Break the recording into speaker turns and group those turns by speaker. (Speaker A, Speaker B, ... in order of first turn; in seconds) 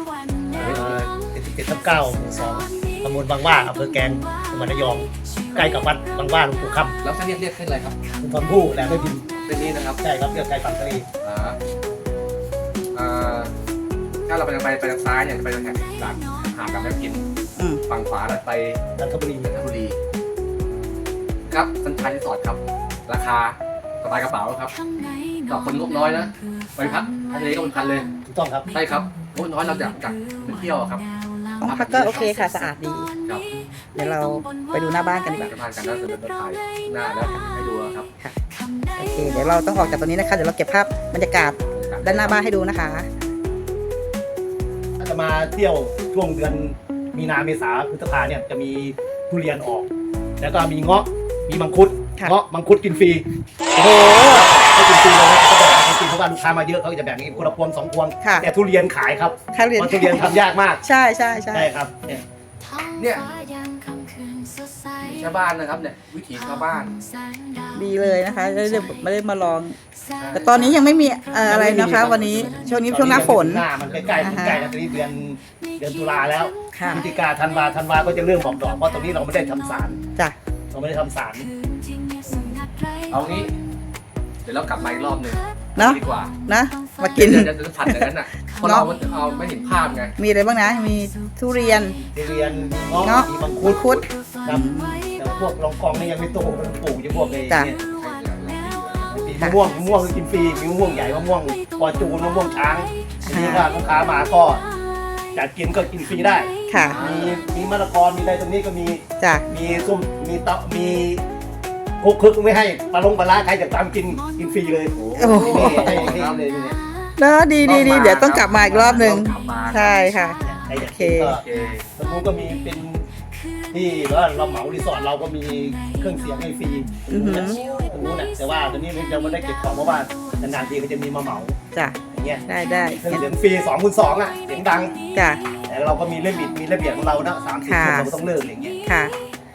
Speaker A: 0.5-6.9, 8.2-9.2, 10.0-11.1, 19.0-19.5, 28.3-28.7, 45.0-49.9, 50.4-53.2, 53.7-60.8, 61.5-62.2, 71.4-80.0, 80.7-81.5, 82.3-82.5, 92.0-97.8, 99.1-104.6, 105.3-111.2, 112.0-116.8, 120.5-121.4, 122.0-123.0, 123.7-131.5, 132.1-132.4, 133.0-135.0, 135.7-138.8
Speaker B: 0.6-1.0, 7.0-8.0, 9.3-10.0, 11.2-11.6, 12.9-13.5, 14.2-17.2, 17.9-18.8, 19.4-19.9, 21.5-24.7, 25.5-28.1, 28.7-31.0, 31.6-32.3, 35.4-38.1, 41.7-42.4, 63.0-63.3, 65.0-67.0, 70.2-70.8, 73.8-74.4, 83.1-83.5, 84.4-86.3, 87.2-90.1, 97.8-99.1, 106.8-107.4, 114.9-116.4, 117.6-120.0, 121.4-121.8, 127.4-127.8
Speaker C: 31.6-33.1, 33.9-35.5, 39.0-43.1, 53.8-54.5, 59.5-61.7, 67.7-69.8, 70.3-73.7, 74.2-74.6, 76.7-77.1, 85.8-88.1, 88.6-88.9, 90.2-92.0, 93.0-95.0, 103.3-103.7, 106.7-107.0, 109.2-109.5, 115.2-116.1, 117.2-120.4, 120.9-121.3, 127.1-127.6, 131.7-133.3, 135.1-135.4, 137.7-138.1, 138.8-139.2